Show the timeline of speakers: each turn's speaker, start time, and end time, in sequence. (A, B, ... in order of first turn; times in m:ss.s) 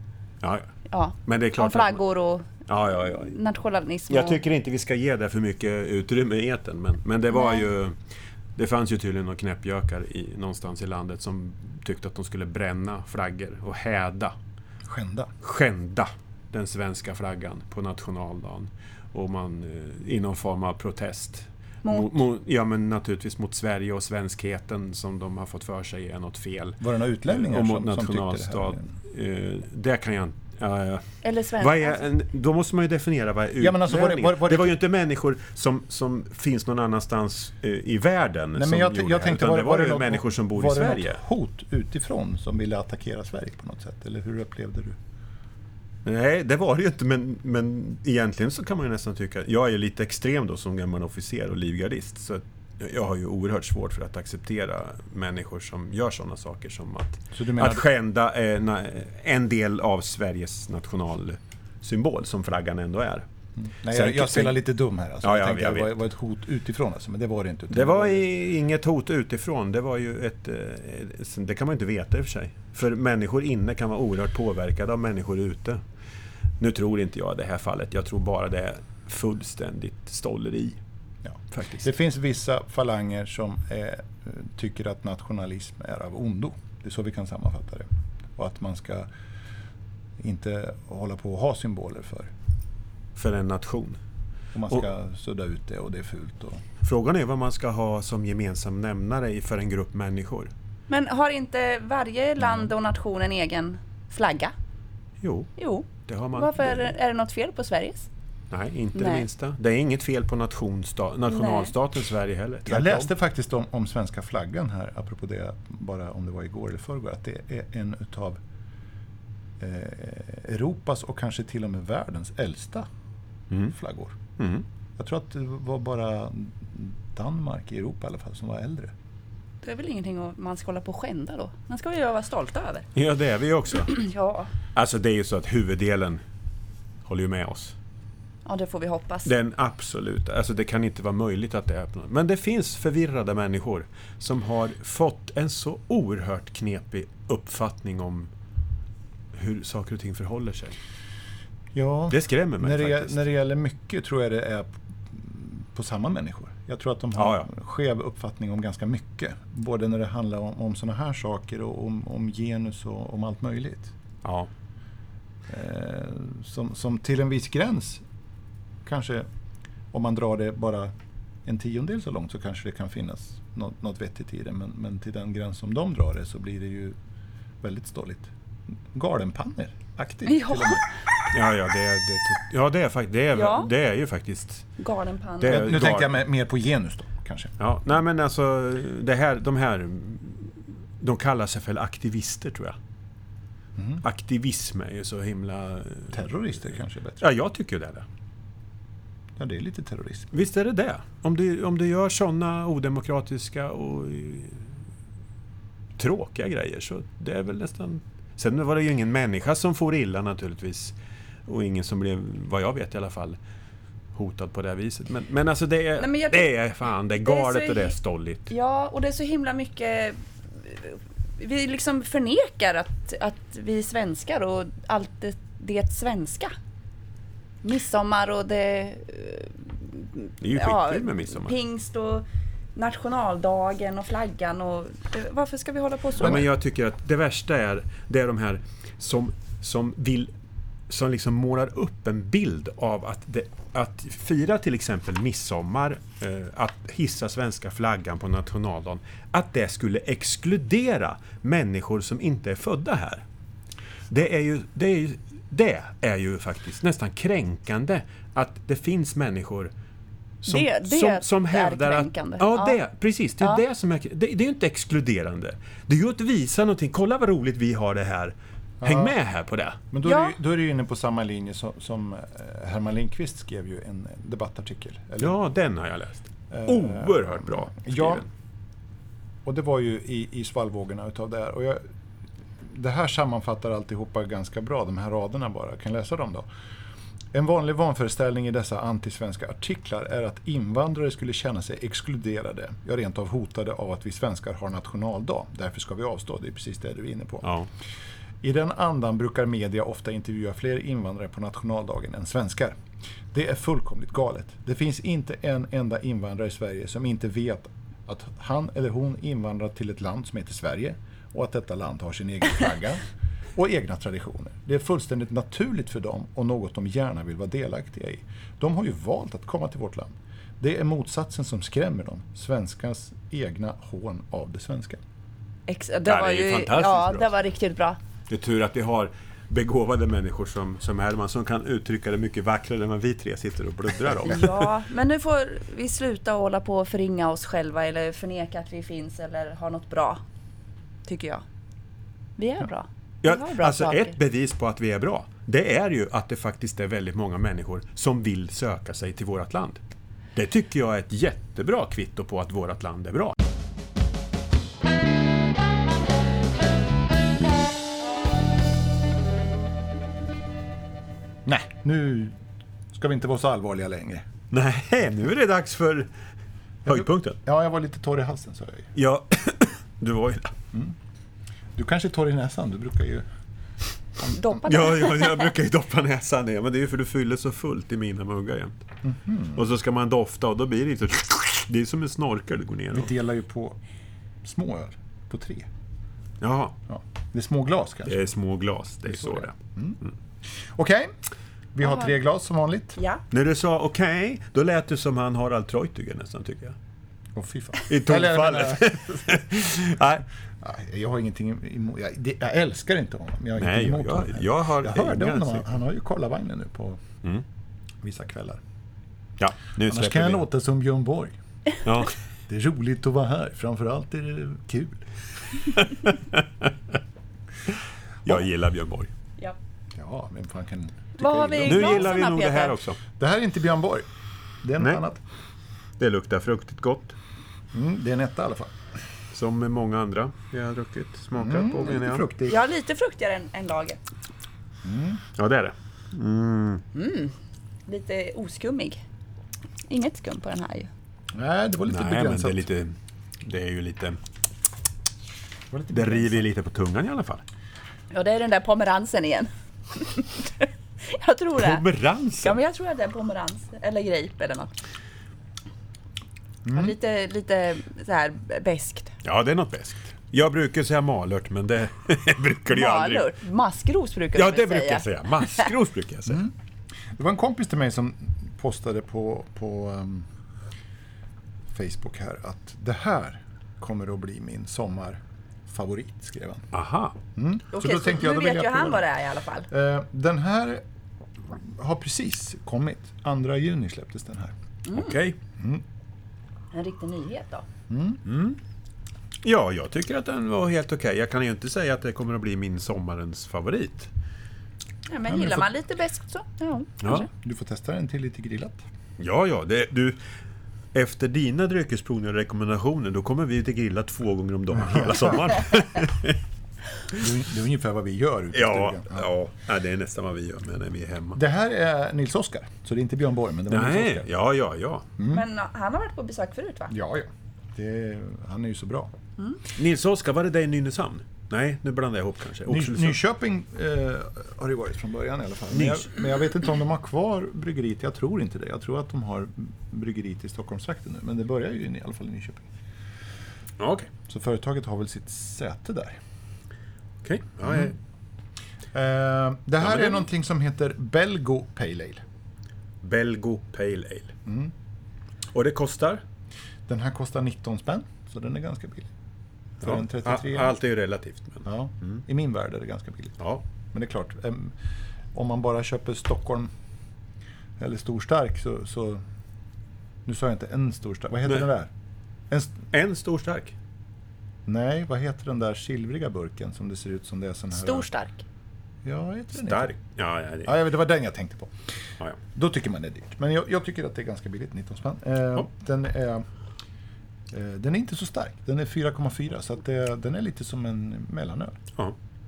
0:00.4-0:00.7 A
0:00.9-0:04.4 B
0:01.2-0:02.0 A
0:02.6-0:03.3 A
0:04.1-0:08.0 A
0:07.3-0:07.6 B
0:08.6-0:14.3 A
0:14.8-0:15.3 C
0:15.4-0:31.0 A
0:21.8-0:22.2 B
0:26.8-0:28.8 C
0:31.2-0:32.0 B
0:31.6-0:41.2 A
0:33.6-0:34.7 C
0:38.5-0:45.0 C
0:46.0-1:03.2 A
0:57.3-0:57.8 C
1:03.6-1:08.3 C
1:03.9-1:04.6 A
1:05.2-1:05.9 A
1:07.7-1:15.8 A
1:16.6-1:20.8 A
1:21.2-1:29.1 C
1:21.5-1:21.8 A
1:30.2-1:32.3 C
1:33.2-1:34.0 A
1:34.5-1:36.6 C
1:36.8-1:40.5 A
1:40.9-1:44.5 B
1:45.2-1:45.5 A
1:45.6-1:48.1 B
1:46.0-1:47.0 A
1:48.5-1:53.1 A
1:48.9-1:49.2 B
1:51.3-1:51.7 B
1:52.6-1:58.4 C
1:59.6-2:02.9 C
2:03.7-2:04.2 C
2:04.4-2:04.6 A
2:05.0-2:08.9 C
2:09.6-2:12.9 B
2:12.9-2:14.0 A
2:13.9-2:14.5 B
2:14.7-2:16.2 A
2:17.0-2:17.7 A
2:18.4-2:19.3 B
2:19.2-2:28.3 A
2:29.3-2:30.8 A
2:31.7-2:43.9 C
2:32.1-2:33.3 A
2:37.1-2:37.5 A
2:44.2-2:44.5 A
2:45.5-2:48.0 C
2:48.8-2:49.3 C
2:49.9-2:50.9 C
2:51.4-2:57.0 C
2:57.6-2:58.3 C
2:58.9-3:00.8 C
3:00.2-3:00.8 B
3:01.3-3:04.7 A
3:03.3-3:03.7 B
3:04.8-3:05.7 B
3:05.4-3:06.2 A
3:05.4-3:07.5 C
3:07.6-3:12.8 A
3:13.8-3:14.0 C
3:14.0-3:16.3 A
3:16.1-3:17.2 C
3:17.2-3:18.0 A
3:19.4-3:20.3 C
3:20.3-3:24.6 A
3:26.0-3:30.9 A
3:31.5-3:33.4 A
3:34.1-3:38.5 A
3:36.0-3:36.5 B
3:37.2-3:37.9 B
3:38.5-3:46.5 B
3:47.6-3:52.2 B
3:50.4-3:51.6 A
3:52.8-3:56.4 B
3:56.2-4:00.3 A
4:00.9-4:13.2 A
4:14.1-4:19.7 A
4:20.4-4:29.8 A
4:20.5-4:22.8 B
4:28.8-4:29.2 C
4:29.9-4:35.4 C
4:30.0-4:30.4 B
4:35.2-4:38.3 A
4:36.5-4:38.2 C
4:39.4-4:41.8 C
4:42.6-4:46.5 C
4:47.3-4:57.5 C
4:57.4-4:57.7 A
4:58.4-5:02.8 C
5:03.3-5:13.0 C
5:13.6-5:25.0 C
5:25.7-5:28.0 B
5:26.0-5:27.3 A
5:28.3-5:34.7 A
5:34.3-5:40.2 B
5:41.0-5:41.4 B
5:42.4-5:44.2 B
5:43.2-5:49.8 A
5:50.4-5:53.4 A
6:01.4-6:02.4 C
6:02.9-6:04.2 C
6:04.5-6:06.1 A
6:06.8-6:07.4 A
6:06.8-6:08.9 C
6:09.0-6:10.5 A
6:11.8-6:13.2 C
6:14.3-6:15.4 B
6:14.6-6:18.8 A
6:19.0-6:19.6 C
6:19.5-6:23.1 A
6:22.9-6:23.8 C
6:24.4-6:25.7 C
6:26.4-6:26.8 A
6:26.9-6:28.2 C
6:28.0-6:29.6 A
6:29.0-6:31.2 C
6:31.7-6:33.0 C
6:31.8-6:32.1 B
6:33.3-6:36.8 A
6:37.3-6:39.4 C
6:37.9-6:40.2 A
6:40.6-6:47.0 C
6:43.6-6:45.6 A
6:48.0-6:48.6 C
6:49.4-6:50.4 A
6:49.8-6:51.4 C
6:51.8-6:52.1 A
6:52.5-6:55.0 C
6:55.8-6:56.7 A
6:58.2-6:59.1 A
7:00.0-7:02.1 C
7:01.2-7:02.8 B
7:01.6-7:03.0 A
7:03.2-7:04.1 C
7:04.6-7:05.2 C
7:06.0-7:07.1 A
7:07.7-7:08.7 C
7:09.3-7:12.2 A
7:11.3-7:12.6 C
7:12.5-7:14.0 B
7:14.8-7:15.2 C
7:15.4-7:16.8 A
7:16.9-7:17.3 B
7:17.9-7:19.0 B
7:19.9-7:20.9 B
7:21.3-7:22.6 C
7:21.8-7:24.2 A
7:25.7-7:26.5 C
7:25.9-7:27.4 A
7:28.1-7:31.8 B
7:31.6-7:32.6 A
7:32.4-7:34.7 B
7:36.6-7:36.9 C
7:36.7-7:39.1 B
7:39.2-7:43.3 A
7:42.7-7:45.7 B
7:44.3-7:46.4 A
7:46.2-7:46.5 C
7:47.1-7:50.3 C
7:51.7-7:56.7 C
7:56.7-7:57.2 A
7:57.4-7:59.1 C
7:57.7-7:59.7 B
7:59.7-8:00.8 C
8:01.4-8:04.5 C
8:04.8-8:05.2 B
8:04.9-8:05.4 A
8:05.6-8:05.8 C
8:06.7-8:07.6 B
8:07.9-8:08.2 C
8:08.2-8:08.6 A
8:09.4-8:14.1 A
8:15.1-8:17.3 B
8:15.3-8:15.7 C
8:17.3-8:18.8 C
8:19.2-8:20.2 A
8:20.9-8:26.4 A
8:24.8-8:25.5 C
8:27.1-8:29.2 C
8:28.5-8:31.4 A
8:31.3-8:34.3 C
8:33.7-8:35.1 A
8:35.2-8:35.4 C
8:35.3-8:36.9 B
8:36.9-8:39.1 C
8:39.8-8:43.2 A
8:42.6-8:52.7 C
8:45.7-8:46.1 A
8:53.8-8:54.1 A
8:54.3-8:56.2 C
8:57.2-8:57.9 A
8:57.6-8:57.9 C
8:58.9-9:02.2 C
8:59.8-9:00.2 A
9:03.0-9:04.3 A
9:04.4-9:04.7 C
9:05.5-9:06.2 A
9:06.9-9:09.1 C
9:09.8-9:10.8 C
9:09.8-9:12.2 A
9:11.6-9:13.4 C
9:13.9-9:14.8 C
9:15.3-9:16.7 C
9:17.8-9:19.2 C
9:20.2-9:21.9 C
9:22.5-9:22.8 C
9:22.9-9:23.7 A
9:24.7-9:28.1 C
9:27.7-9:28.4 B
9:29.0-9:29.9 C
9:29.5-9:30.8 A
9:30.6-9:31.7 C
9:32.5-9:36.5 C
9:37.5-9:41.8 C